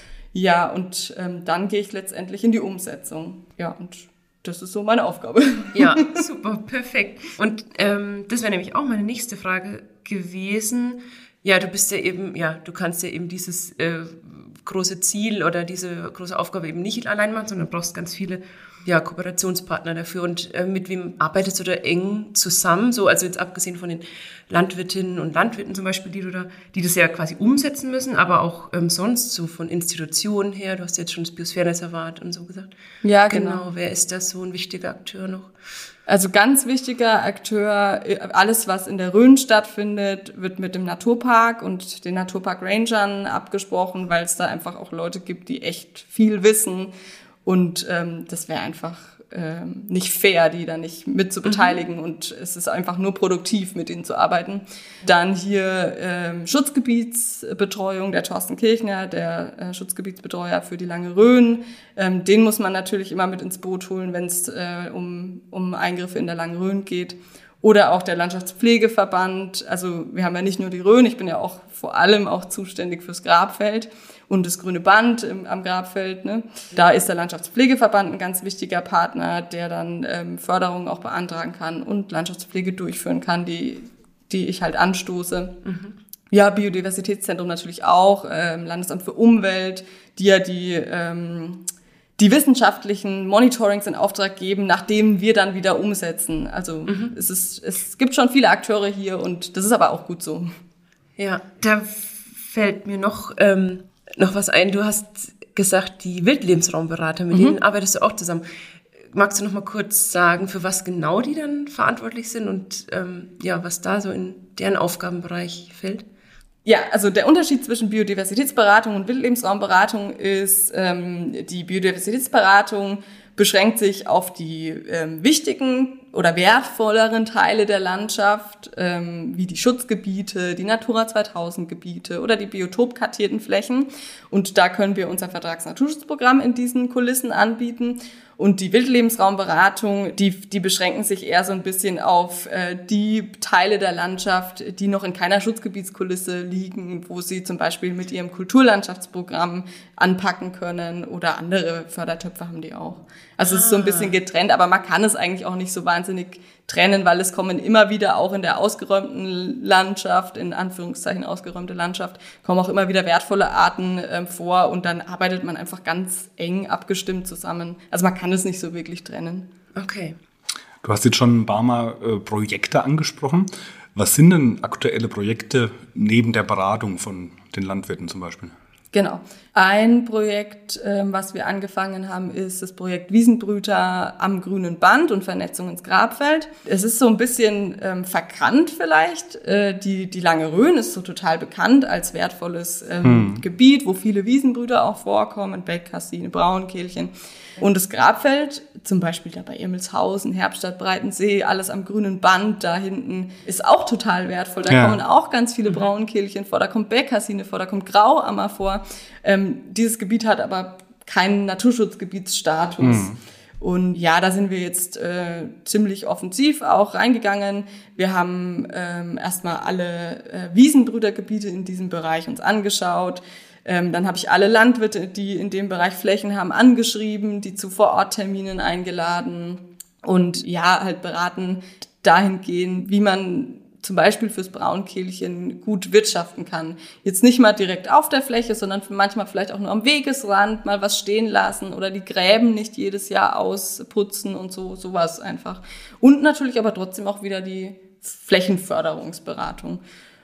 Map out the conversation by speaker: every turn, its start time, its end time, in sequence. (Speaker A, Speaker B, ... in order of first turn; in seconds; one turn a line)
Speaker A: 0.3-6.2
Speaker B: 5.8-32.7
Speaker A: 33.0-33.6
Speaker B: 33.3-35.5
Speaker A: 36.1-46.9
Speaker A: 47.5-85.6
Speaker B: 51.4-51.8
Speaker B: 85.7-86.0
Speaker A: 86.3-91.7
Speaker A: 92.2-100.5
Speaker B: 96.9-97.2
Speaker B: 101.2-108.5
Speaker B: 109.1-116.0
Speaker A: 116.7-169.5
Speaker B: 153.4-154.1
Speaker B: 169.8-170.2
Speaker C: 170.8-178.5
Speaker A: 178.9-249.8
Speaker C: 193.0-193.4
Speaker C: 204.7-205.0
Speaker C: 212.8-213.2